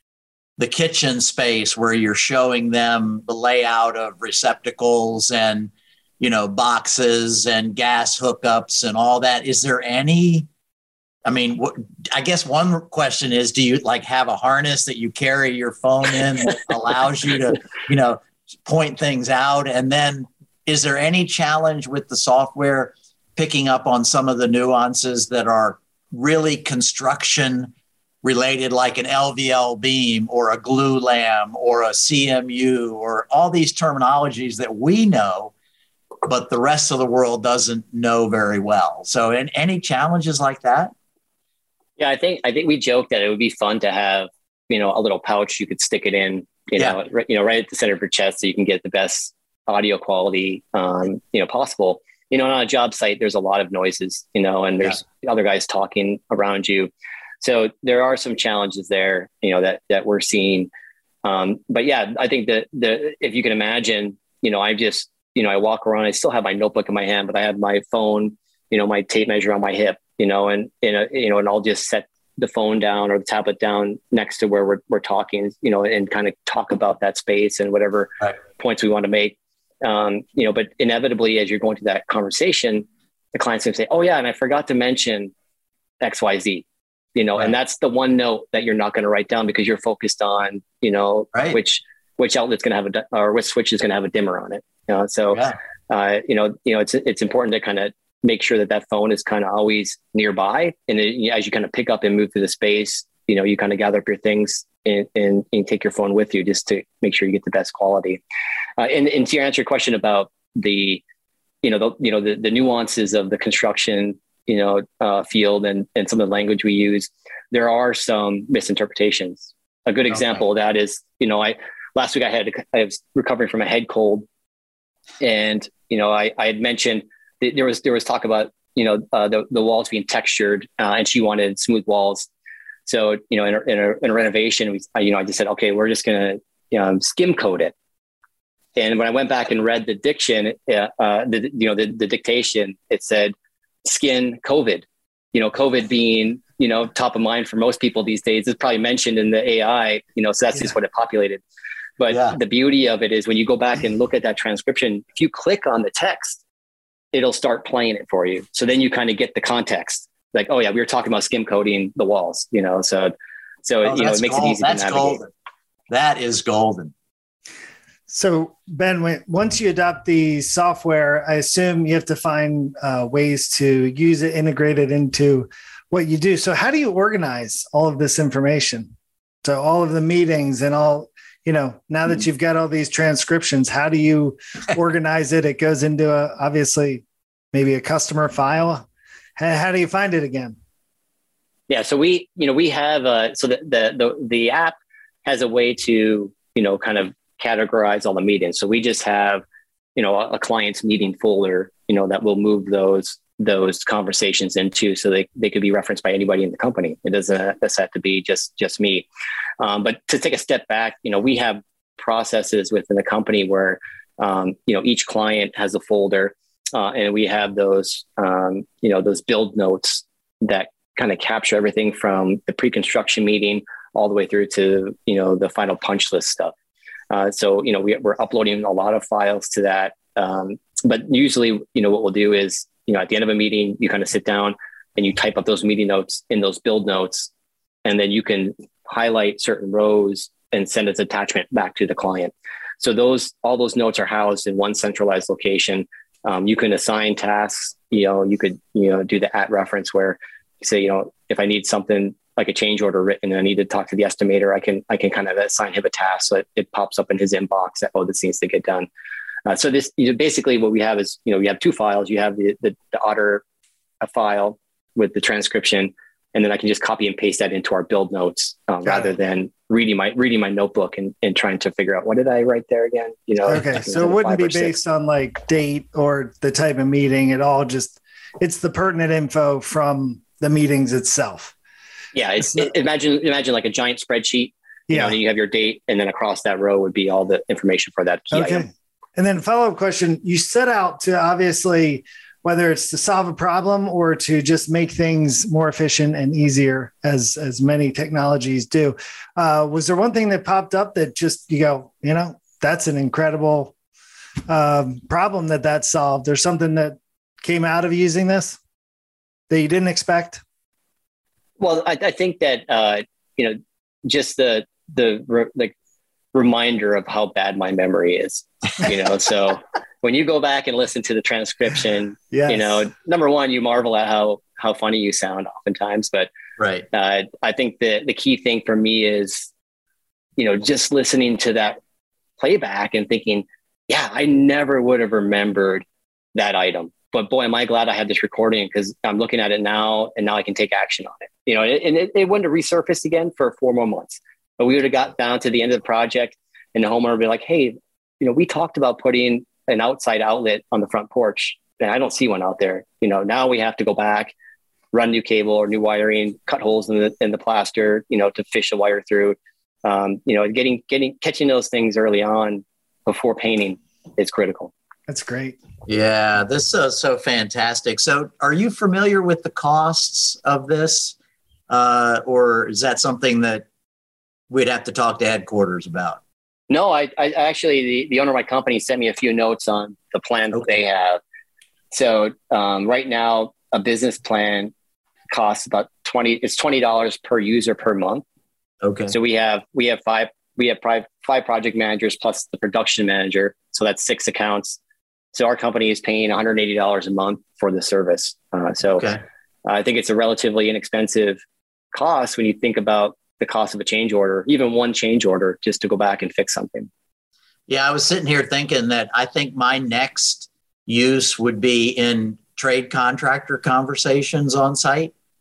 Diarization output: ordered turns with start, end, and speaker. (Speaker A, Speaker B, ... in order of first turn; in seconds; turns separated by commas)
Speaker A: 0.6-10.5, Speaker A: 11.2-27.7, Speaker A: 28.2-35.5, Speaker A: 36.2-40.9, Speaker B: 42.0-60.7, Speaker B: 61.2-85.3, Speaker B: 86.0-108.2, Speaker A: 95.3-95.6, Speaker B: 108.8-111.0, Speaker B: 111.6-124.3, Speaker B: 125.2-132.3, Speaker B: 132.8-137.7, Speaker B: 138.8-151.4, Speaker B: 152.0-156.4, Speaker A: 152.1-152.3, Speaker B: 157.1-163.1, Speaker B: 163.6-165.2, Speaker A: 163.8-165.3, Speaker A: 165.9-166.9, Speaker C: 168.1-178.9, Speaker C: 179.4-190.6, Speaker B: 191.7-199.4, Speaker B: 199.9-209.1, Speaker B: 209.6-226.5, Speaker B: 227.1-237.3, Speaker B: 237.8-258.9, Speaker B: 259.4-263.4, Speaker B: 264.0-274.8, Speaker C: 273.5-281.5, Speaker B: 282.1-288.6, Speaker C: 282.4-282.7, Speaker C: 284.9-285.2, Speaker C: 288.3-303.7, Speaker C: 304.5-308.6, Speaker C: 309.5-310.4, Speaker B: 311.6-315.7, Speaker B: 316.3-326.3, Speaker C: 322.3-322.8, Speaker A: 326.6-326.9, Speaker B: 326.9-329.5, Speaker B: 330.4-331.8, Speaker B: 332.4-354.3, Speaker B: 354.9-364.7, Speaker C: 365.1-365.6, Speaker A: 365.9-371.1, Speaker A: 371.7-373.6, Speaker A: 374.5-376.2, Speaker B: 376.7-381.2, Speaker B: 381.9-384.7, Speaker B: 385.3-388.2, Speaker A: 388.8-389.1, Speaker B: 389.1-394.8, Speaker B: 395.3-399.1, Speaker A: 398.9-399.2, Speaker B: 399.6-401.4, Speaker B: 401.9-406.9, Speaker A: 407.7-415.1